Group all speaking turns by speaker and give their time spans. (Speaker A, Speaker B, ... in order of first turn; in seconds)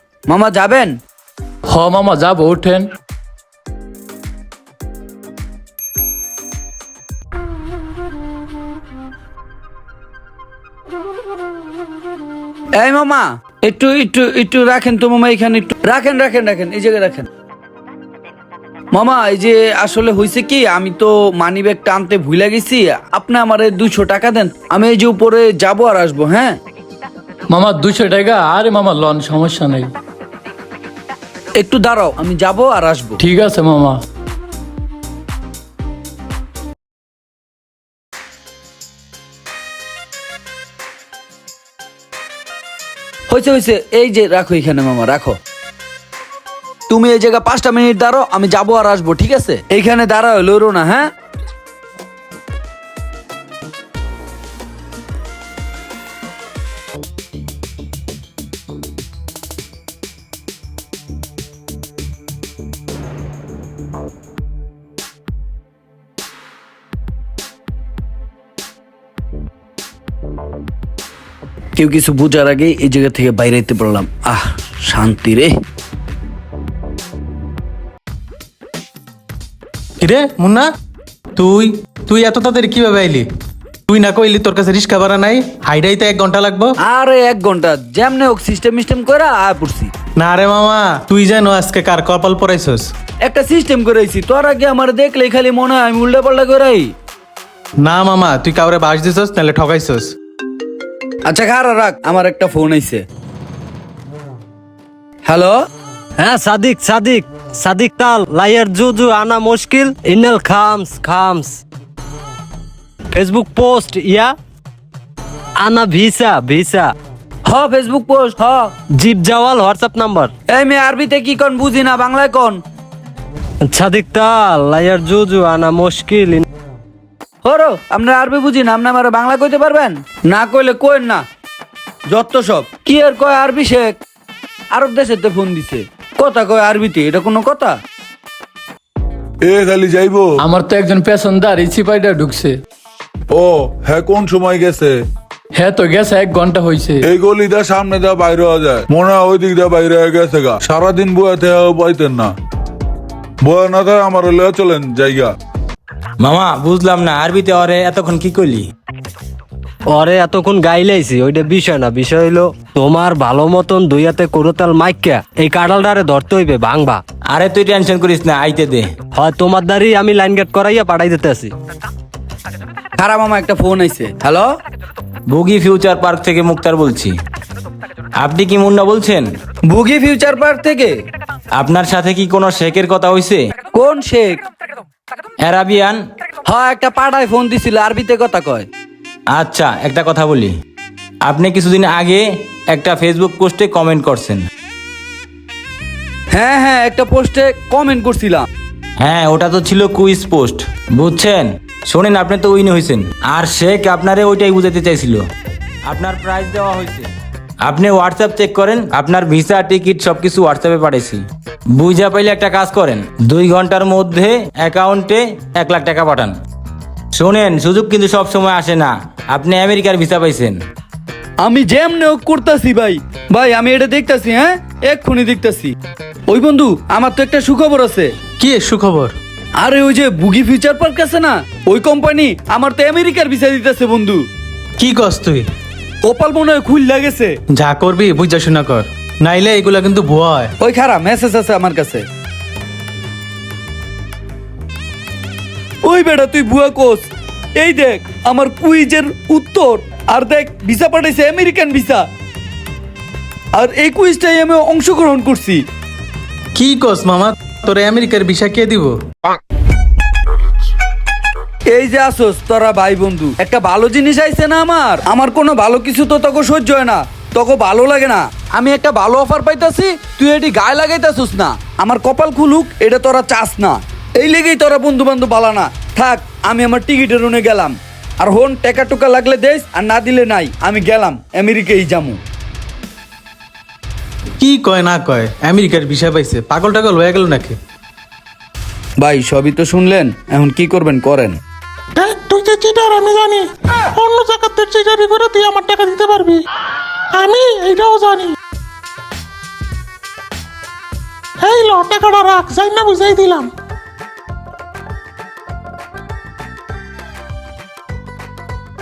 Speaker A: 0.3-1.0, 12.8-17.3, 18.9-26.6, 31.6-33.2, 43.3-45.4, 46.9-51.1, 71.8-75.5, 86.8-89.9, 93.2-96.9, 101.3-103.0, 105.3-105.6, 117.5-118.7, 120.5-122.6, 127.4-131.2, 132.1-134.0, 134.7-137.8, 173.0-174.5, 179.7-180.9, 183.7-184.4, 186.5-188.7, 196.3-198.5, 221.4-225.8, 226.3-228.1, 229.6-234.2, 236.0-237.3, 240.6-242.1, 245.8-247.1, 247.6-252.0, 253.5-255.6, 261.7-282.2, 289.0-291.4
Speaker B: 1.7-2.9, 27.5-29.9, 33.2-34.0, 140.4-142.6, 145.6-147.0
Speaker C: 80.0-80.7, 81.4-83.3, 83.9-86.8, 90.2-92.9, 97.8-100.1, 228.4-229.2, 234.8-235.5, 237.5-240.5, 256.6-259.0, 284.4-287.6
Speaker D: 106.2-111.6, 113.1-114.3, 115.6-116.9, 119.0-120.3, 123.6-126.5, 159.9-167.0, 169.2-171.5
Speaker E: 139.4-140.3, 143.3-145.0, 147.1-152.3, 153.4-155.3
Speaker F: 156.2-158.7, 167.3-168.9, 175.3-177.2, 178.2-179.3, 181.6-183.4, 185.4-186.0, 189.3-190.5, 191.2-194.4, 199.0-205.2, 205.8-207.1, 207.6-211.2, 211.8-216.3, 217.1-220.6
Speaker G: 292.0-296.4, 297.1-298.4, 301.4-303.5